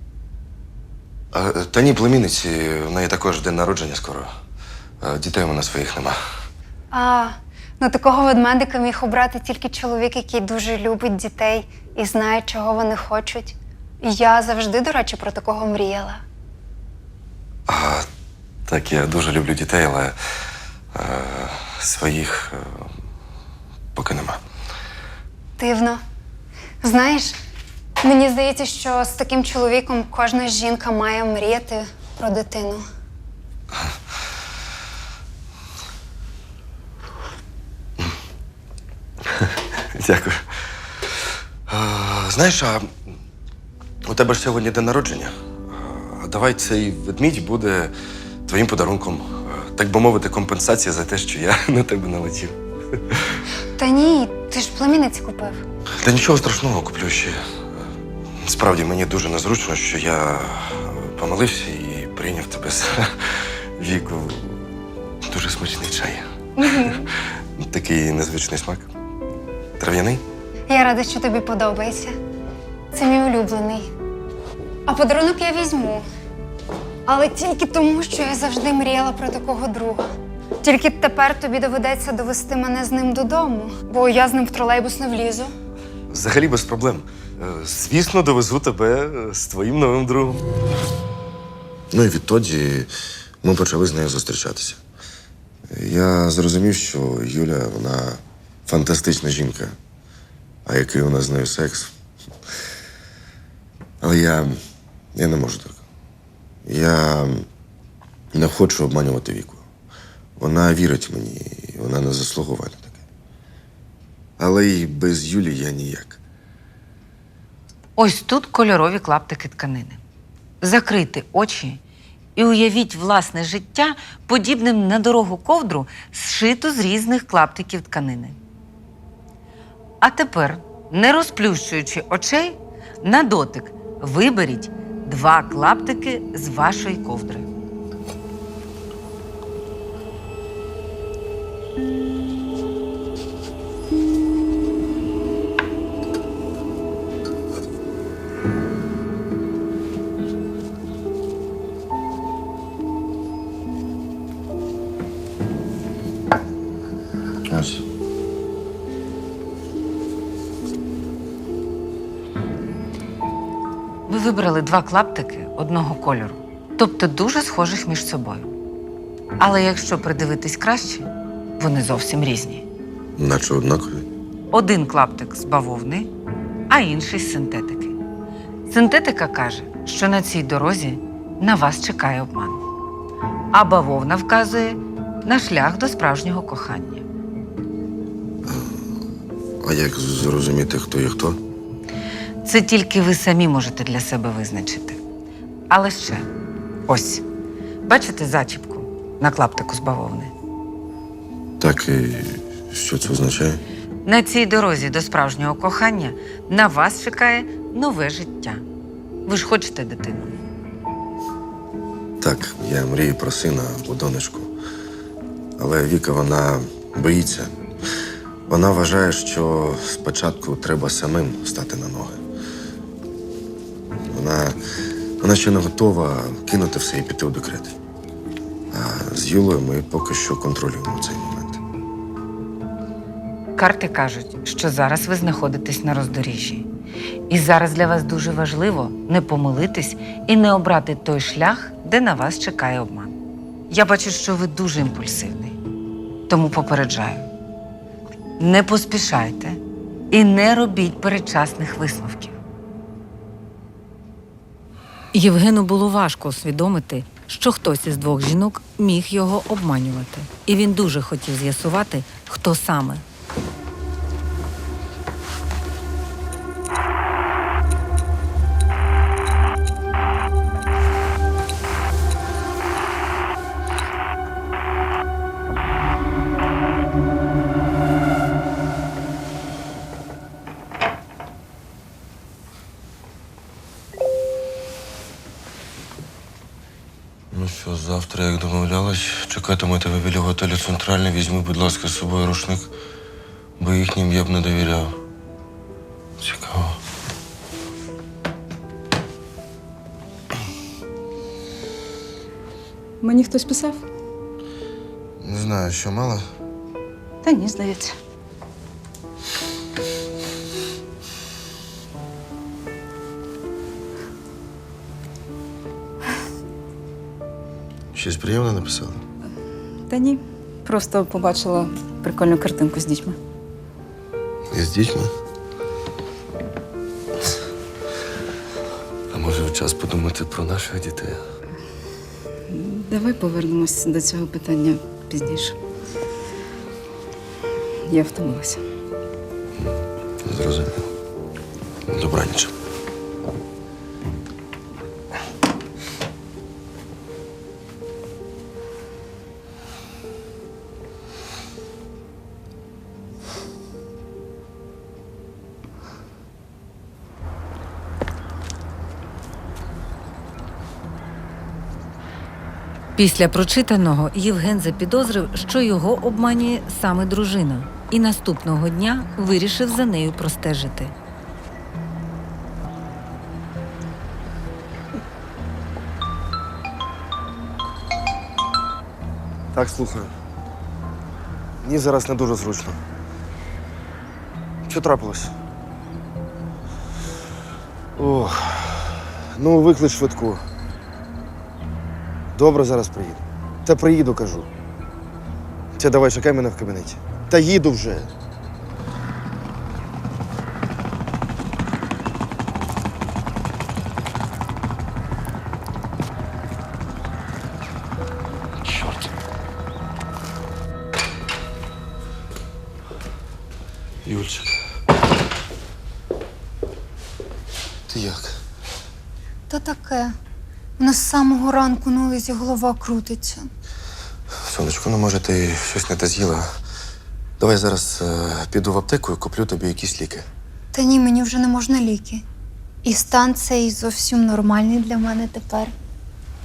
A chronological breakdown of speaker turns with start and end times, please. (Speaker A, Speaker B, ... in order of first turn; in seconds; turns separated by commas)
Speaker A: 1.3-4.3, Speaker A: 5.0-6.2, Speaker B: 6.9-16.2, Speaker A: 17.7-18.1, Speaker A: 18.7-20.1, Speaker A: 20.9-22.9, Speaker A: 23.9-24.4, Speaker B: 25.6-26.0, Speaker B: 26.8-27.4, Speaker B: 28.0-32.8, Speaker A: 39.2-40.7, Speaker A: 41.7-42.9, Speaker A: 44.0-47.9, Speaker A: 48.5-53.4, Speaker B: 53.8-55.6, Speaker A: 56.0-57.8, Speaker A: 58.4-64.7, Speaker A: 65.3-68.9, Speaker B: 66.6-67.0, Speaker A: 69.8-70.2, Speaker B: 70.7-72.2, Speaker B: 72.9-73.9, Speaker B: 74.9-76.0, Speaker B: 77.0-80.1, Speaker B: 80.6-85.5, Speaker A: 86.1-90.5, Speaker A: 91.9-92.9, Speaker A: 93.4-94.8, Speaker A: 95.7-99.8, Speaker A: 100.7-101.9, Speaker A: 104.0-104.6, Speaker A: 105.1-105.8, Speaker A: 106.6-107.5, Speaker A: 108.3-109.6, Speaker A: 110.4-112.9, Speaker A: 114.4-116.2, Speaker C: 118.0-120.0, Speaker C: 120.6-121.8, Speaker C: 122.3-128.4, Speaker C: 130.0-137.5, Speaker A: 157.5-157.8, Speaker C: 164.1-168.5, Speaker C: 169.4-172.6, Speaker A: 173.2-174.0, Speaker C: 174.5-176.1, Speaker C: 176.7-177.9, Speaker C: 178.7-182.6, Speaker C: 183.5-187.1, Speaker A: 188.4-188.8, Speaker A: 189.6-191.4, Speaker C: 192.4-195.0, Speaker C: 195.7-196.3, Speaker C: 196.9-197.2, Speaker C: 197.8-200.3, Speaker A: 201.6-203.6, Speaker C: 204.0-208.6, Speaker C: 209.2-210.4, Speaker A: 212.2-214.5, Speaker A: 215.6-217.6, Speaker A: 218.5-222.2, Speaker A: 224.1-224.6, Speaker A: 225.2-227.8, Speaker A: 228.7-231.6, Speaker C: 233.6-236.7, Speaker C: 237.3-243.2, Speaker C: 243.7-245.6, Speaker C: 246.3-247.3, Speaker C: 248.4-249.6, Speaker C: 250.1-252.4, Speaker C: 255.1-263.0, Speaker A: 287.3-292.7, Speaker A: 293.6-294.9, Speaker A: 296.2-296.8, Speaker D: 303.0-303.8, Speaker A: 305.2-306.3, Speaker D: 307.2-307.9, Speaker A: 317.9-319.0, Speaker D: 319.9-323.2, Speaker A: 324.5-325.1, Speaker A: 329.1-331.2, Speaker D: 332.5-335.6, Speaker D: 337.9-338.6, Speaker A: 339.6-340.9, Speaker A: 341.9-342.5, Speaker C: 363.0-370.9, Speaker A: 379.5-380.1, Speaker A: 381.6-382.8, Speaker A: 384.7-385.3, Speaker A: 387.9-390.4, Speaker A: 392.3-394.5, Speaker A: 395.8-398.1, Speaker A: 408.6-409.1, Speaker A: 414.0-414.6, Speaker A: 417.9-418.4, Speaker B: 419.5-420.1, Speaker B: 420.8-423.5, Speaker A: 424.4-426.5, Speaker A: 427.4-430.3, Speaker B: 430.7-432.2, Speaker B: 432.8-435.7